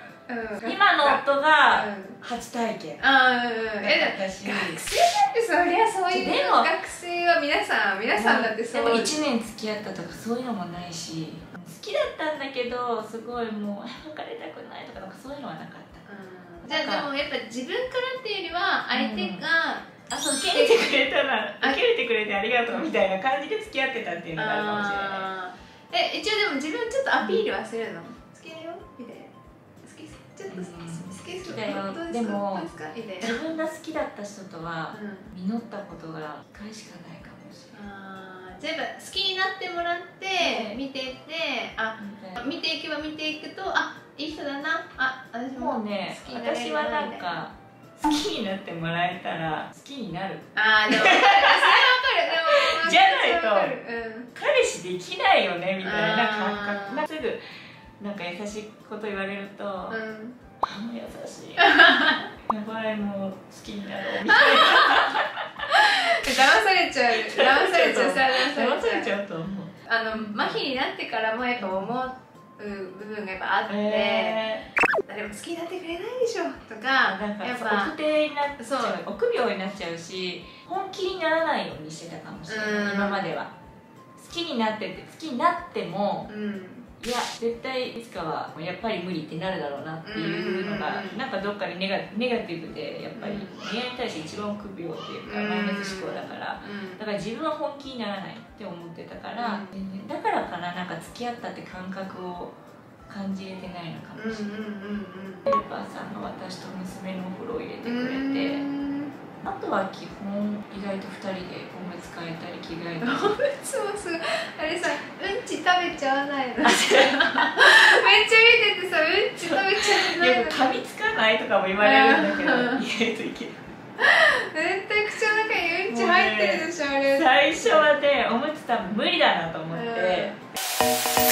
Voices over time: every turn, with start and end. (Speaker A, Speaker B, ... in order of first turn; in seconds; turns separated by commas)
Speaker A: 0.3-2.2, Speaker B: 0.6-3.0, Speaker A: 3.0-9.2, Speaker B: 3.8-4.8, Speaker B: 6.1-6.7, Speaker B: 8.1-16.1, Speaker A: 16.1-19.9, Speaker B: 16.6-17.1, Speaker B: 18.9-19.4, Speaker B: 20.1-25.3, Speaker A: 20.5-21.0, Speaker A: 24.4-33.4, Speaker B: 30.5-37.7, Speaker A: 34.9-35.3, Speaker A: 37.7-47.4, Speaker B: 40.4-40.8, Speaker B: 42.0-42.4, Speaker B: 45.5-51.9, Speaker A: 50.5-54.3, Speaker B: 52.5-53.7, Speaker B: 54.3-57.4, Speaker A: 55.8-57.1, Speaker B: 58.0-60.0, Speaker A: 59.9-60.4, Speaker B: 60.6-61.8, Speaker A: 61.6-62.2, Speaker B: 62.4-66.0, Speaker A: 64.3-65.1, Speaker A: 65.7-69.1, Speaker B: 67.2-70.6, Speaker A: 69.8-74.4, Speaker B: 71.6-71.9, Speaker B: 73.7-74.7, Speaker A: 75.0-77.9, Speaker B: 77.0-83.5, Speaker A: 78.6-79.0, Speaker A: 82.5-83.2, Speaker B: 84.2-86.3, Speaker A: 86.3-86.9, Speaker B: 87.0-102.5, Speaker A: 90.0-91.2, Speaker A: 93.1-93.6, Speaker A: 95.2-97.0, Speaker A: 99.4-99.7, Speaker B: 103.1-104.5, Speaker A: 104.2-105.5, Speaker B: 105.5-108.6, Speaker A: 107.8-109.1, Speaker B: 109.4-113.4, Speaker A: 113.0-120.6, Speaker B: 116.6-118.0, Speaker B: 119.4-123.6, Speaker A: 121.8-122.8, Speaker A: 124.0-127.9, Speaker B: 125.9-130.3, Speaker A: 129.7-130.4